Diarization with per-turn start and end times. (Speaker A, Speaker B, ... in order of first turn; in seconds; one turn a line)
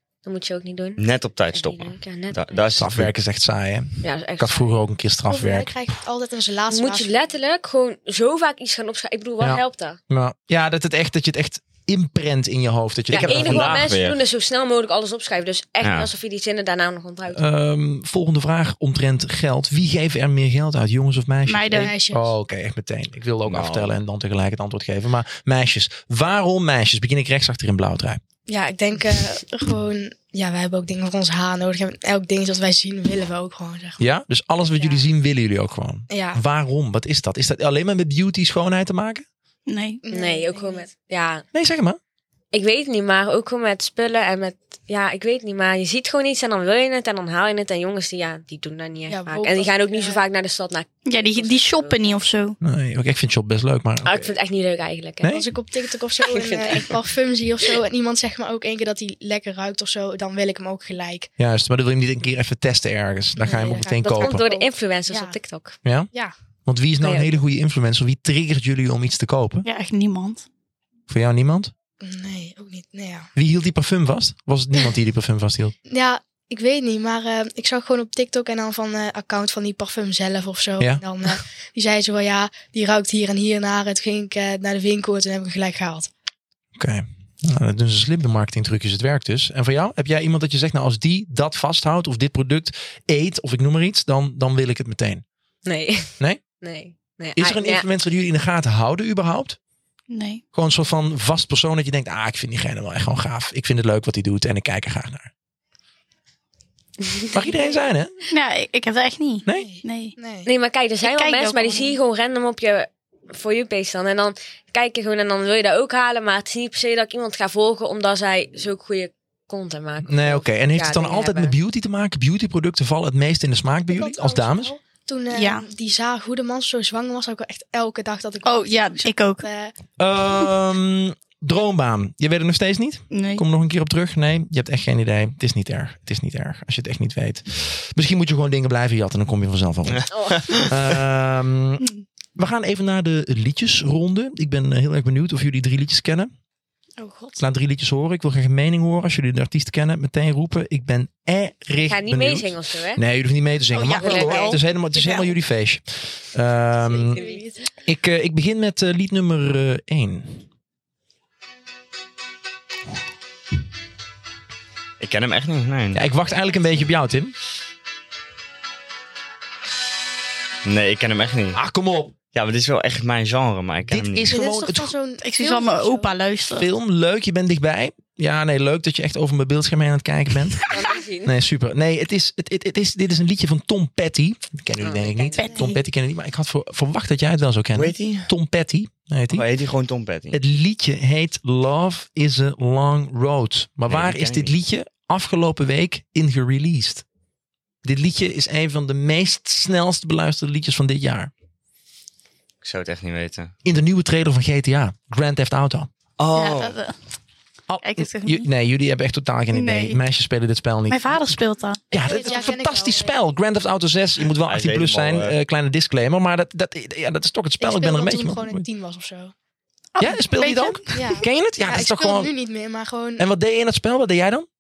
Speaker A: 0.2-2.8
Speaker B: 1.0-3.1
Speaker C: 2.8-5.8
Speaker A: 4.0-4.8
Speaker D: 5.3-7.2
Speaker A: 6.7-10.0
Speaker C: 9.4-13.9
Speaker A: 13.1-17.4
Speaker B: 13.1-14.2
Speaker B: 15.8-16.1
Speaker C: 17.3-28.2
Speaker E: 21.4-21.9
Speaker D: 21.7-22.4
Speaker B: 23.4-23.9
Speaker D: 28.5-34.0
Speaker C: 34.0-39.2
Speaker D: 36.1-36.4
Speaker E: 39.7-40.0
Speaker D: 40.0-40.9
Speaker A: 40.1-41.5
Speaker C: 41.5-42.0
Speaker A: 42.5-52.2
Speaker D: 49.1-50.2
Speaker E: 51.0-52.6
Speaker C: 52.6-54.3
Speaker A: 54.0-55.3
Speaker C: 55.2-55.5
Speaker D: 55.3-61.3
Speaker A: 56.2-56.9
Speaker C: 61.4-64.4
Speaker D: 63.4-65.4
Speaker A: 63.9-65.8
Speaker C: 65.8-66.1
Speaker C: 66.7-69.7
Speaker A: 67.0-67.3
Speaker E: 69.6-70.5
Speaker C: 71.1-71.7
Speaker D: 72.0-73.3
Speaker C: 73.4-75.7
Speaker D: 75.9-86.1
Speaker C: 86.8-95.2
Speaker A: 95.7-97.9
Speaker C: 97.4-99.6
Speaker E: 100.1-100.4
Speaker C: 100.5-105.3
Speaker A: 107.0-107.8
Speaker C: 107.3-108.1
Speaker E: 108.3-110.2
Speaker D: 109.5-110.5
Speaker A: 110.5-121.6
Speaker E: 111.0-112.0
Speaker C: 120.0-124.7
Speaker D: 123.9-129.8
Speaker E: 125.3-125.7
Speaker E: 128.4-129.5
Speaker C: 130.0-141.8
Speaker E: 133.1-133.4
Speaker B: 139.9-140.7
Speaker A: 140.1-140.5
Speaker C: 142.4-146.3
Speaker E: 147.0-147.5
Speaker C: 147.4-157.2
Speaker A: 151.9-153.0
Speaker E: 153.7-155.3
Speaker A: 154.0-154.5
Speaker A: 156.8-157.5
Speaker D: 156.9-157.6
Speaker C: 157.8-160.4
Speaker B: 165.0-166.1
Speaker C: 165.9-167.3
Speaker B: 170.7-171.6
Speaker C: 171.6-172.1
Speaker B: 172.3-174.4
Speaker C: 173.9-174.9
Speaker D: 174.3-176.2
Speaker E: 175.2-176.7
Speaker C: 176.6-180.7
Speaker A: 180.7-181.4
Speaker C: 181.2-189.5
Speaker A: 184.8-185.8
Speaker E: 185.4-185.7
Speaker D: 185.5-185.8
Speaker B: 187.7-188.3
Speaker B: 189.3-190.4
Speaker C: 190.3-197.1
Speaker B: 193.9-194.5
Speaker C: 197.8-201.3
Speaker B: 202.6-203.5
Speaker C: 203.6-205.9
Speaker B: 206.2-206.8
Speaker E: 206.3-206.9
Speaker C: 207.7-211.1
Speaker E: 207.8-208.5
Speaker E: 209.5-210.0
Speaker E: 210.9-212.4
Speaker C: 211.9-218.7
Speaker D: 211.9-213.2
Speaker B: 214.4-215.4
Speaker D: 217.6-219.3
Speaker E: 219.9-221.2
Speaker C: 220.0-222.3
Speaker D: 220.9-223.2
Speaker C: 223.2-224.5